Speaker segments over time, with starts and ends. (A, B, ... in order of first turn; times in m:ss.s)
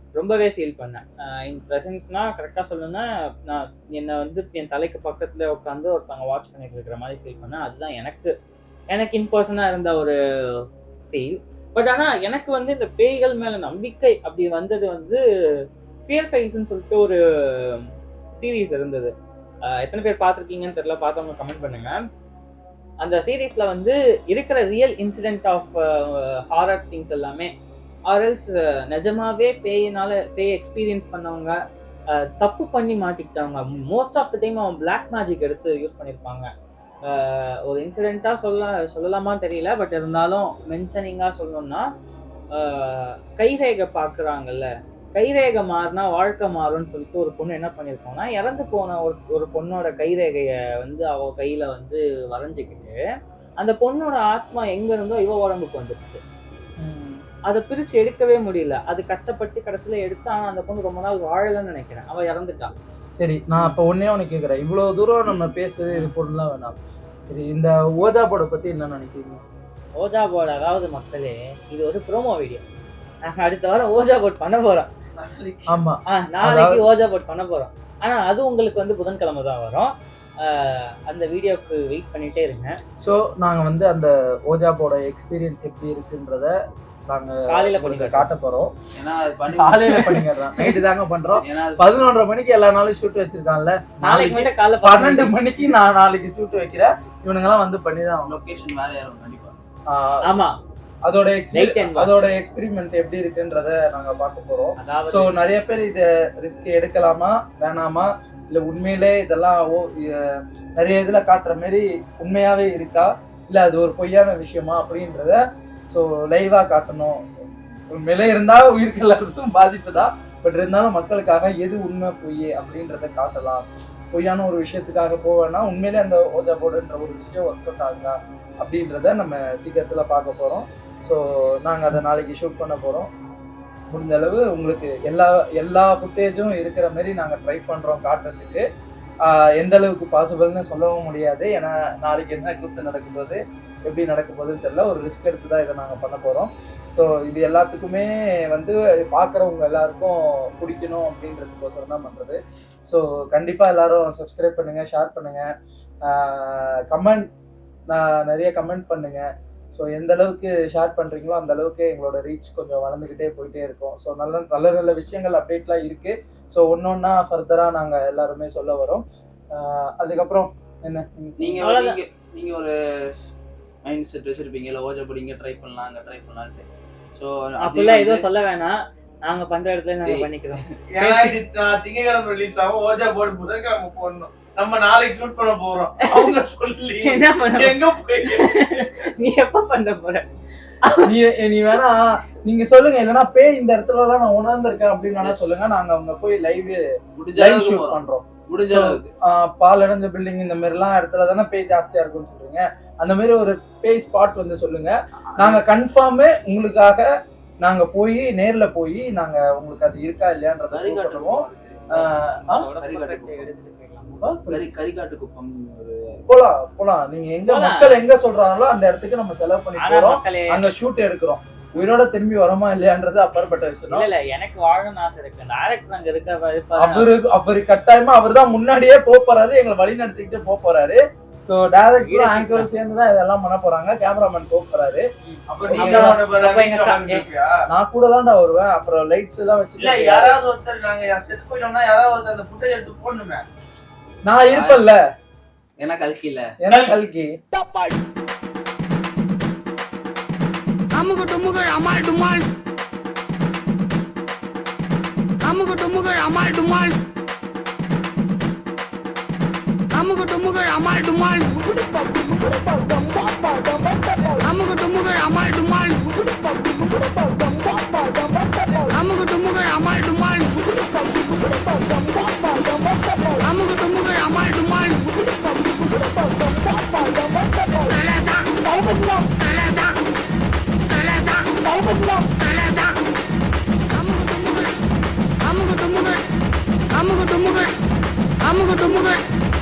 0:00.2-0:08.3 A
0:08.9-0:10.2 A
0:11.1-0:15.2 A
0:16.1-0:19.1 A
0:19.7-0:22.0 A
0:23.0-0:27.5 A
0:28.1-0:31.6 A
0:32.1-0:36.5 A
0:37.1-0:41.9 A
0:42.6-0:53.0 A
0:53.6-0:56.2 A
0:56.8-0:57.2 B
0:57.5-1:02.7 A
1:03.2-1:09.4 B
1:10.0-1:12.6 A
1:13.3-1:14.9 A
1:15.2-1:15.7 C
1:15.7-1:16.8 B
1:16.1-1:19.9 A
1:20.4-1:22.8 A
1:23.0-1:26.5 B
1:27.1-1:28.7 B
1:27.5-1:28.3 A
1:29.0-1:30.2 C
1:29.5-1:38.4 B
1:31.4-1:31.8 C
1:34.0-1:35.4 A
1:38.3-1:39.6 C
1:39.9-1:40.4 B
1:40.3-1:40.6 A
1:41.0-2:13.1 B
1:41.5-1:42.3 A
1:44.8-1:45.3 A
2:13.9-2:18.6 B
2:19.3-2:35.5 B
2:36.1-2:37.3 B
2:37.9-2:51.7 B
2:51.4-2:52.7 C
2:51.6-2:52.0 A
2:53.8-2:56.7 C
2:57.2-2:58.2 C
2:57.6-3:01.4 A
3:00.9-3:08.6 D
3:07.0-3:10.2 A
3:10.8-3:11.1 A
3:11.1-3:27.1 B
3:15.2-3:15.5 C
3:17.2-3:19.1 C
3:25.4-3:25.6 C
3:27.6-3:32.7 B
3:30.7-3:32.1 C
3:32.5-3:34.2 A
3:32.8-3:33.5 C
3:34.2-3:34.6 B
3:34.5-3:36.0 C
3:36.3-3:44.1 B
3:37.5-3:38.0 A
3:39.8-3:40.6 A
3:43.9-3:47.1 A
3:46.8-3:55.0 B
3:52.0-3:52.7 A
3:55.2-3:57.3 A
3:55.5-3:57.5 D
3:55.6-3:56.2 B
3:57.7-4:00.4 B
3:59.8-4:03.4 D
4:04.2-4:05.0 B
4:04.5-4:04.9 C
4:05.8-4:06.5 C
4:06.6-4:07.3 B
4:11.0-4:12.4 E
4:15.5-4:16.9 E
4:20.0-4:21.5 E
4:24.5-4:26.0 E
4:28.9-4:30.5 E
4:33.2-4:35.0 E
4:37.6-4:39.9 E
4:41.0-4:42.9 E
4:44.0-4:44.6 E
4:45.5-4:46.2 E
4:47.0-4:47.7 E
4:48.5-4:49.2 E